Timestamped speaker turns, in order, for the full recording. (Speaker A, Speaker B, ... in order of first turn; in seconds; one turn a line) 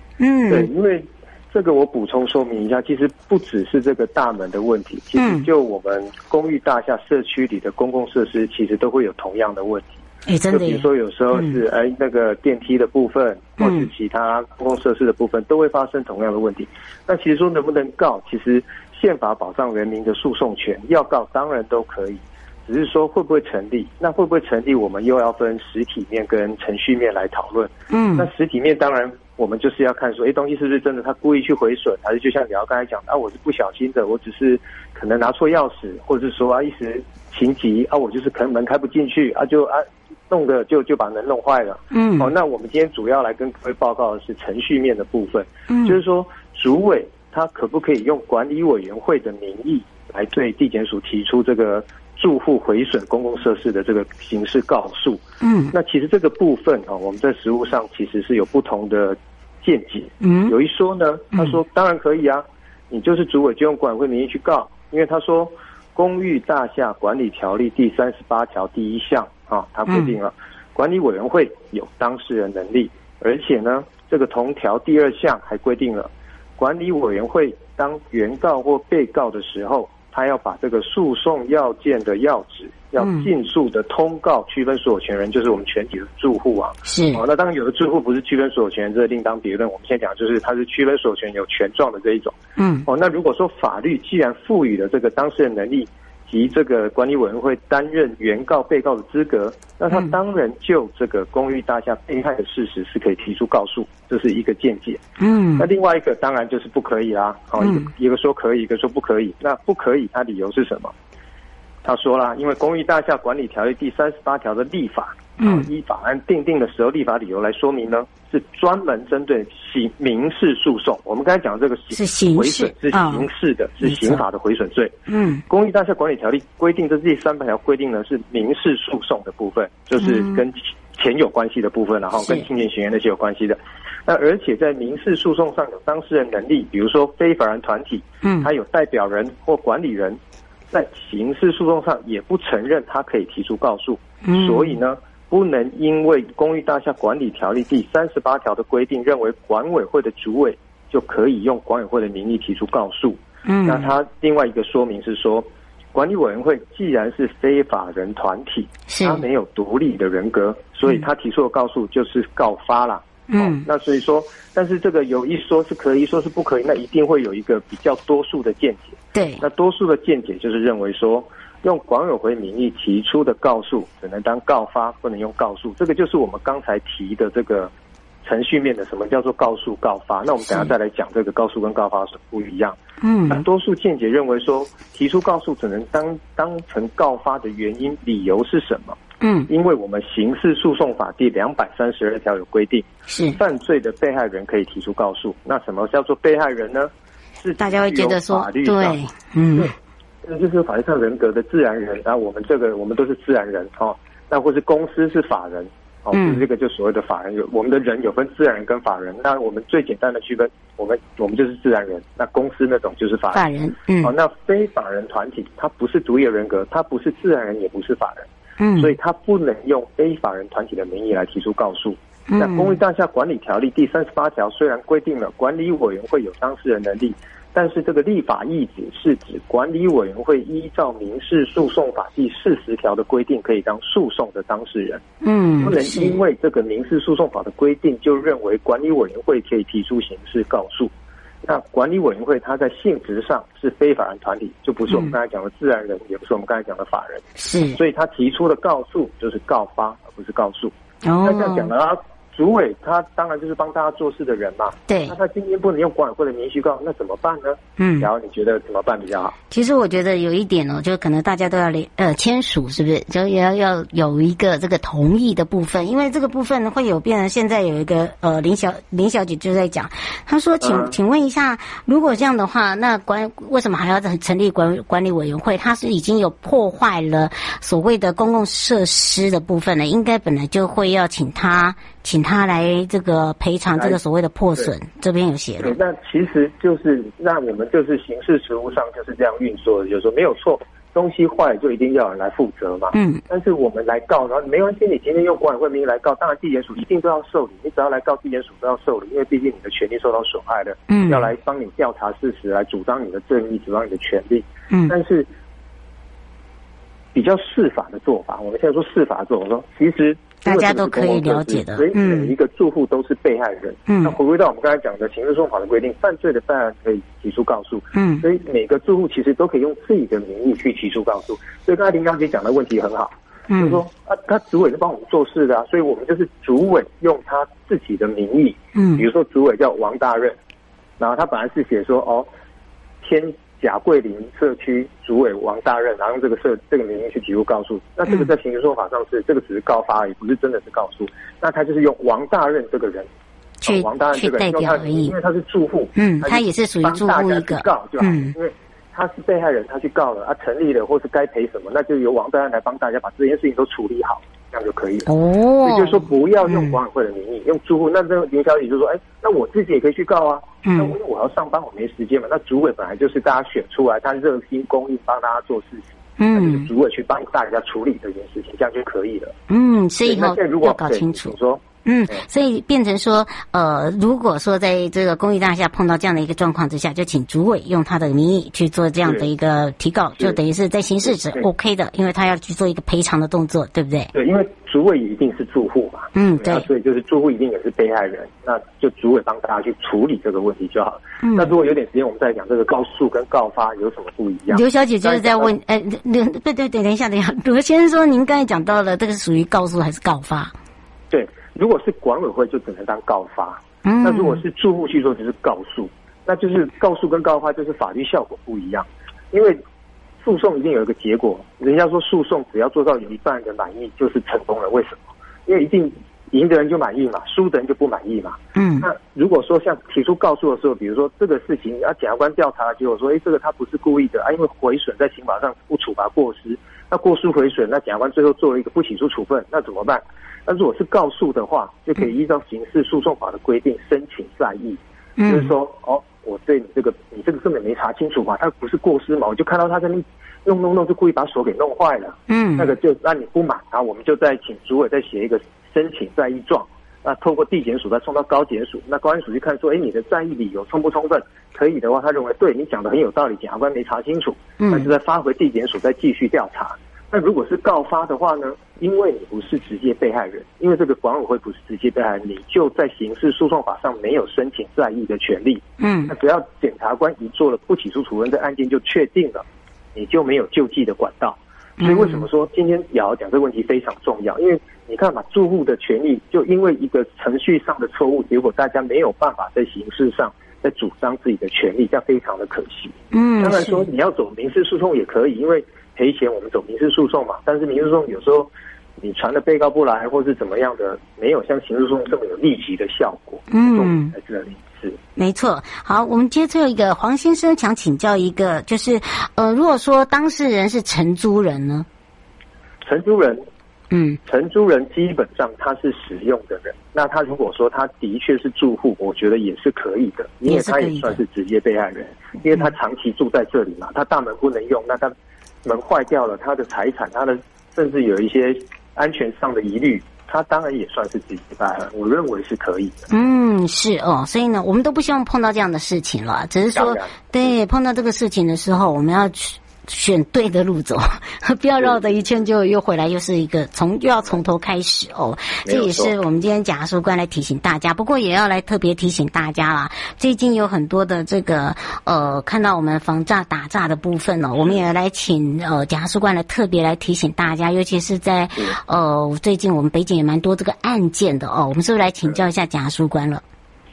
Speaker A: 0.2-0.7
Speaker B: 0.5-10.0
Speaker A: 5.2-5.5
Speaker A: 10.2-11.5
Speaker B: 10.5-55.2
Speaker A: 13.6-13.9
Speaker A: 27.9-28.3
Speaker A: 41.9-42.3
Speaker A: 45.7-46.0
Speaker A: 55.4-55.7
Speaker B: 55.7-105.0
Speaker A: 60.2-60.5
Speaker A: 69.9-70.1
Speaker A: 83.0-83.3
Speaker A: 86.8-87.2
Speaker A: 92.6-92.8
Speaker A: 105.2-105.7
Speaker B: 105.6-110.9
Speaker A: 107.6-107.9
Speaker B: 111.8-124.9
Speaker A: 115.4-115.7
Speaker A: 121.9-123.3
Speaker A: 123.8-124.2
Speaker A: 125.1-125.4
Speaker B: 125.5-140.2
Speaker A: 130.0-130.4
Speaker A: 138.2-138.5
Speaker B: 140.7-177.7
Speaker A: 144.3-144.7
Speaker A: 153.4-153.9
Speaker A: 158.9-159.2
Speaker A: 163.3-163.6
Speaker A: 169.1-169.4
Speaker B: 178.2-182.8
Speaker A: 183.0-183.4
Speaker B: 183.3-199.0
Speaker A: 189.2-189.5
Speaker A: 193.1-193.4
Speaker A: 197.6-199.7
Speaker B: 200.2-213.4
Speaker A: 206.1-206.4
Speaker A: 213.3-214.1
Speaker B: 214.0-235.0
Speaker A: 218.6-218.9
Speaker A: 222.3-222.8
Speaker A: 235.2-236.2
Speaker B: 235.6-240.9
Speaker B: 241.4-259.3
Speaker A: 247.4-247.8
Speaker A: 251.0-251.7
Speaker A: 254.9-255.1
Speaker A: 257.8-258.1
Speaker A: 259.5-285.7
Speaker B: 270.6-270.9
Speaker B: 285.6-305.3
Speaker A: 292.9-293.2
Speaker A: 300.9-301.3
Speaker B: 307.1-330.4
Speaker A: 310.4-312.3
Speaker A: 313.9-314.1
Speaker A: 317.9-318.2
Speaker A: 323.5-323.8
Speaker A: 328.8-329.0
Speaker B: 331.0-332.3
Speaker B: 333.0-343.1
Speaker A: 343.6-345.1
Speaker B: 343.7-355.1
Speaker A: 345.9-348.3
Speaker A: 355.1-356.8
Speaker B: 355.6-369.3
Speaker A: 360.6-360.9
Speaker A: 366.2-366.7
Speaker A: 369.5-384.1
Speaker B: 370.0-372.2
Speaker B: 379.0-379.3
Speaker B: 381.0-381.4
Speaker B: 384.1-395.5
Speaker A: 386.1-386.6
Speaker A: 391.2-391.5
Speaker A: 394.5-400.5
Speaker B: 401.1-409.6
Speaker A: 403.8-404.4
Speaker B: 410.2-495.0
Speaker A: 418.5-418.9
Speaker A: 435.2-435.5
Speaker A: 442.3-442.7
Speaker A: 454.6-454.9
Speaker A: 465.8-466.1
Speaker A: 471.8-472.2
Speaker A: 483.1-483.9
Speaker A: 493.5-494.1
Speaker A: 495.2-501.9
Speaker B: 502.8-503.4
Speaker A: 503.9-504.2
Speaker B: 504.2-515.1
Speaker A: 510.4-511.2
Speaker B: 515.6-523.0
Speaker A: 523.1-553.4
Speaker B: 526.7-527.5
Speaker B: 531.8-532.2
Speaker B: 535.6-536.1